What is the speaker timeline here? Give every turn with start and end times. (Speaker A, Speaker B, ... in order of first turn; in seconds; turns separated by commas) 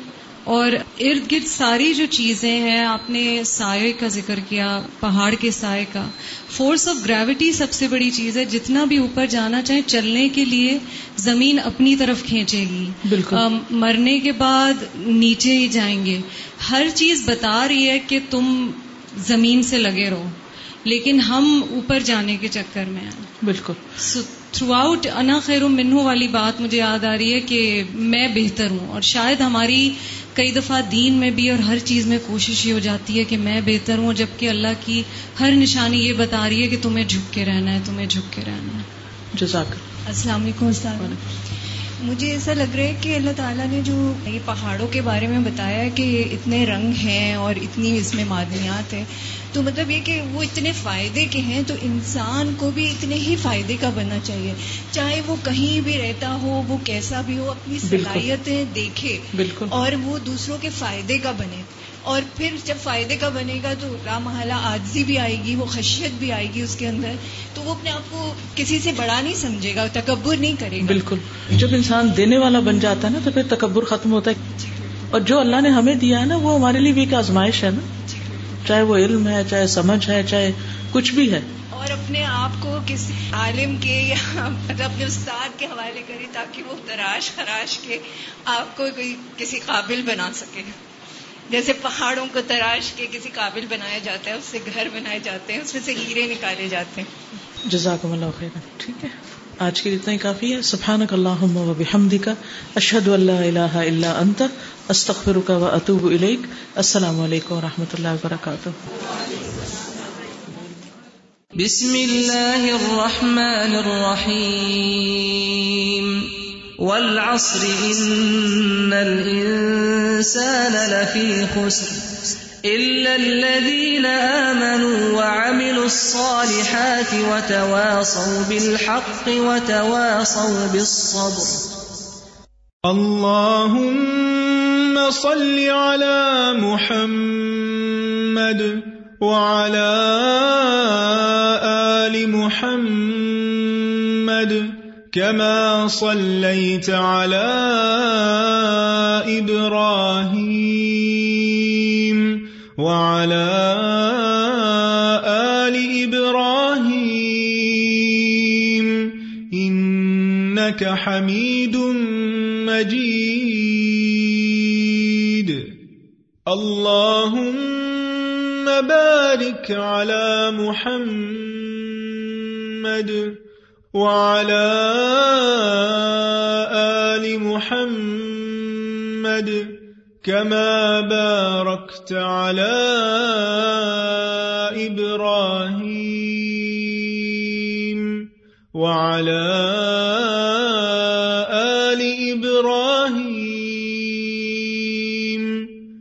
Speaker A: 0.5-23.3, Speaker B: 13.1-13.4, Speaker B: 23.4-23.8, Speaker A: 24.0-38.9, Speaker B: 39.4-39.9, Speaker C: 40.1-41.2, Speaker C: 42.0-71.0, Speaker B: 57.9-58.3, Speaker B: 59.3-59.7, Speaker B: 70.8-74.4, Speaker C: 74.5-74.8, Speaker B: 75.1-77.9, Speaker C: 78.0-78.4, Speaker B: 78.7-81.5, Speaker C: 81.7-90.7, Speaker C: 91.5-97.1, Speaker B: 97.7-108.8, Speaker D: 111.6-131.7, Speaker E: 132.8-165.7, Speaker E: 166.5-173.4, Speaker E: 173.9-188.2, Speaker E: 188.8-195.7